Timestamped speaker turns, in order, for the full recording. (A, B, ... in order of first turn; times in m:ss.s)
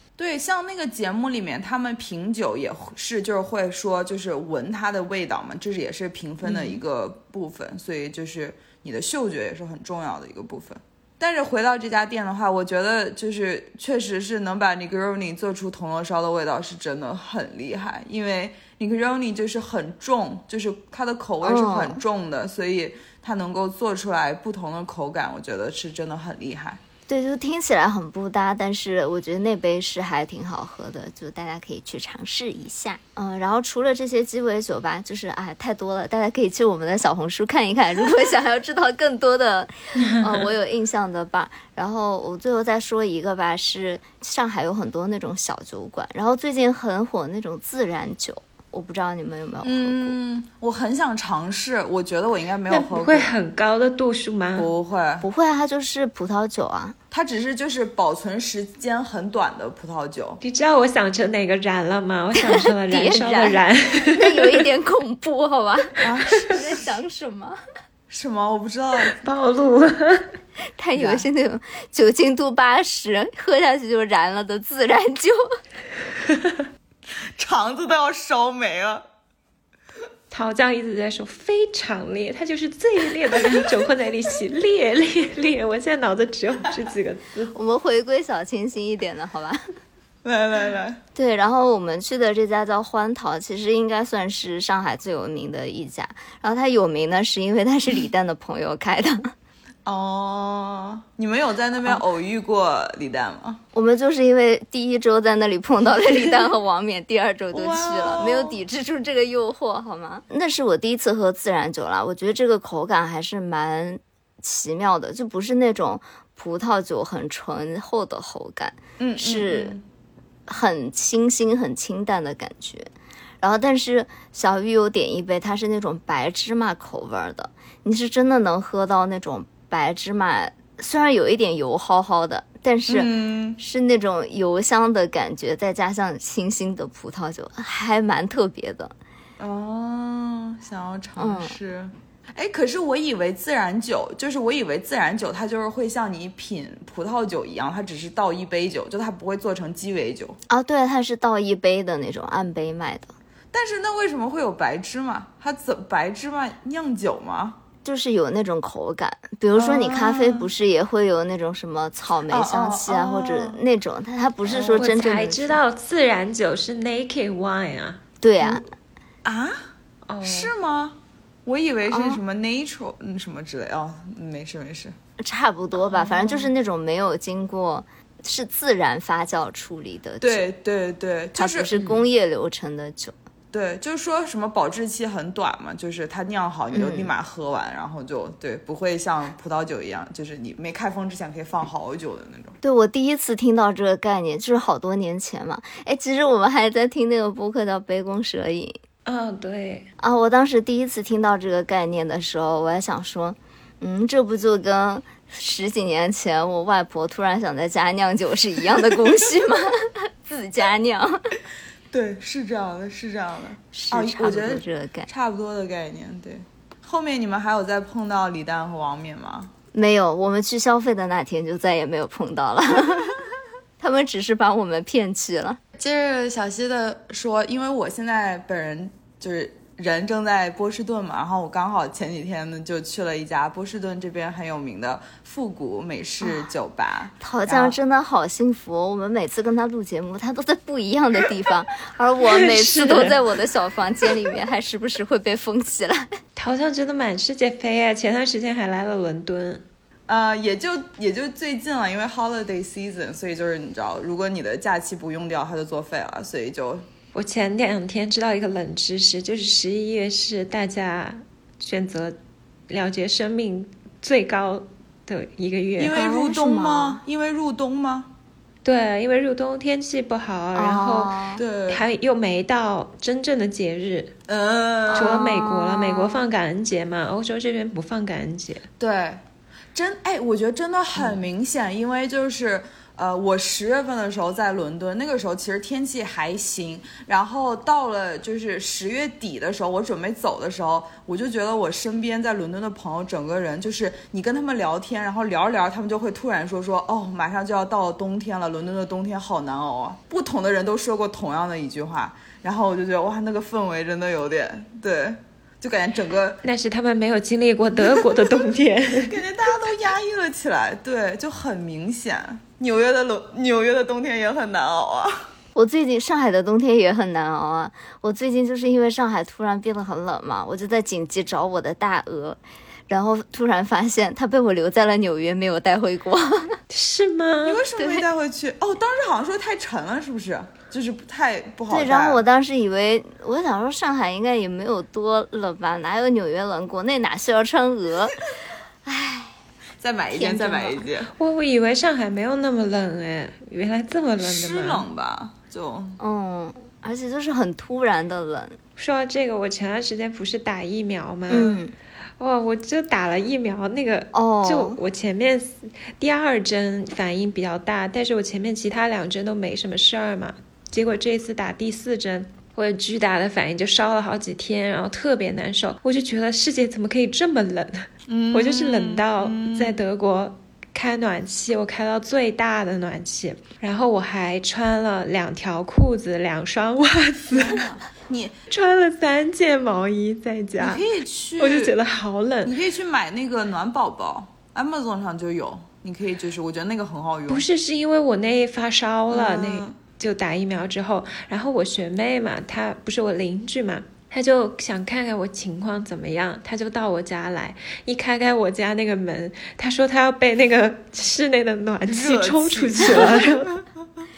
0:00.2-0:26.8 A
0:21.4-0:22.0 B
0:27.1-0:50.2 B
0:49.6-0:53.3 A
0:52.7-0:54.7 C
0:54.6-0:55.3 A
0:55.2-0:57.0 B
0:57.1-1:00.4 A
1:00.4-1:04.7 C
1:02.4-1:03.6 B
1:04.2-1:07.6 B
1:06.0-1:06.8 A
1:08.1-1:09.2 A
1:09.2-1:10.3 C
1:10.8-1:15.5 B
1:11.0-1:11.3 A
1:17.4-1:19.0 A
1:20.3-1:27.5 C
1:27.5-1:29.6 B
1:30.2-1:31.0 A
1:31.2-1:39.3 B
1:39.9-1:43.6 A
1:43.7-1:59.8 B
1:47.5-1:48.6 A
1:59.0-1:59.8 A
2:00.5-2:02.9 B
2:03.4-2:18.9 B
2:12.9-2:13.6 A
2:19.4-2:30.4 A
2:21.2-2:21.6 B
2:30.5-2:33.1 B
2:33.5-2:37.6 A
2:37.8-2:45.6 B
2:39.6-2:40.5 A
2:42.3-2:43.6 A
2:44.5-2:44.9 A
2:44.7-2:48.0 C
2:48.2-2:48.6 B
2:49.2-2:49.6 A
2:50.1-2:50.5 C
2:50.2-2:55.0 A
2:51.9-2:52.2 B
2:55.2-3:00.4 B
2:55.9-2:56.4 A
3:00.2-3:01.8 A
3:01.4-3:03.1 B
3:03.5-3:12.6 A
3:06.7-3:07.1 B
3:12.6-3:18.8 B
3:19.1-3:19.9 C
3:20.0-3:31.2 B
3:31.9-3:39.5 A
3:33.7-3:35.1 B
3:39.7-3:43.2 B
3:43.8-3:45.6 B
3:45.8-3:57.8 A
3:57.2-4:06.1 B
4:02.3-4:03.2 C
4:06.4-4:09.6 C
4:10.1-4:16.8 A
4:17.2-4:22.2 C
4:22.7-4:26.1 C
4:25.8-4:28.1 A
4:25.9-4:27.0 B
4:28.6-4:31.1 C
4:30.6-4:31.4 B
4:31.4-4:31.8 A
4:31.7-4:34.1 C
4:34.3-4:35.6 A
4:34.9-4:35.9 B
4:35.0-4:38.7 C
4:38.8-4:39.2 A
4:39.7-5:06.4 A
5:06.4-5:09.2 C
5:07.9-5:08.4 A
5:09.0-5:15.2 A
5:15.6-5:26.6 B
5:26.7-5:27.7 C
5:27.4-5:32.2 A
5:31.7-5:38.3 B
5:38.9-5:39.3 B
5:39.8-5:41.1 A
5:40.1-5:40.8 B
5:41.2-5:44.9 C
5:44.2-5:46.0 A
5:46.0-5:48.6 B
5:48.8-5:51.6 C
5:51.3-5:51.7 B
5:52.2-6:17.6 C
5:54.1-5:54.8 B
6:08.1-6:09.8 A
6:17.3-6:18.4 A
6:18.5-6:20.8 C
6:20.6-6:21.8 A
6:21.4-6:22.6 C
6:22.4-6:27.5 A
6:27.3-6:43.5 C
6:29.1-6:29.8 A
6:41.9-6:43.6 A